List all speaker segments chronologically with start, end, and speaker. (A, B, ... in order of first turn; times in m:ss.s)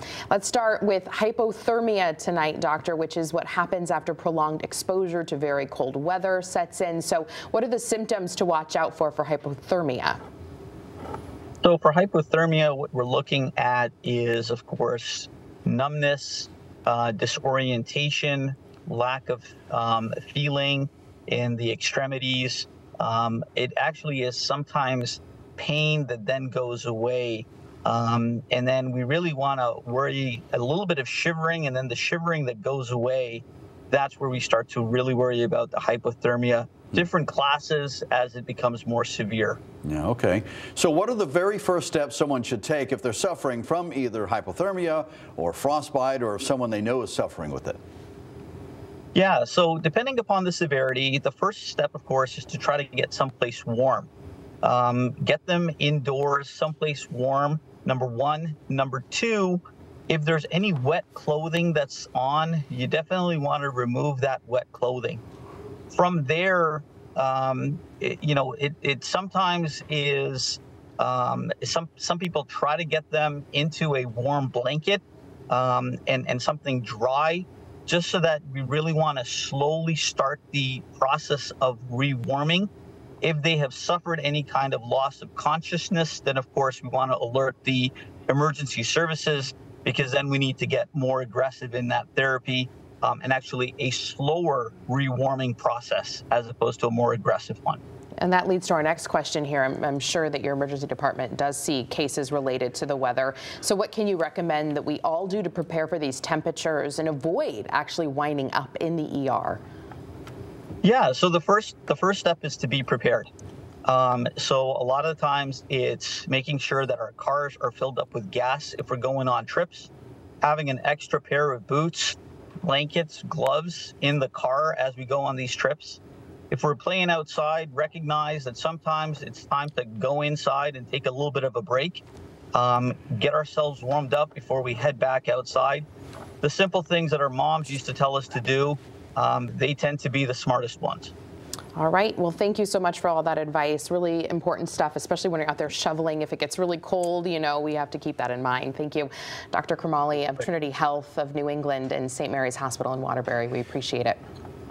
0:00.3-0:10.2 A
0:11.6-0:39.6 B
0:39.8-0:47.8 C
0:49.1-0:54.1 B
0:54.6-1:05.2 B
1:05.9-1:22.7 B
1:23.2-1:37.8 B
1:38.2-1:49.6 A
1:50.8-1:53.3 B
1:53.8-1:59.9 B
2:00.4-2:12.0 B
2:12.5-2:15.8 B
2:16.4-2:21.1 B
2:21.8-2:34.2 A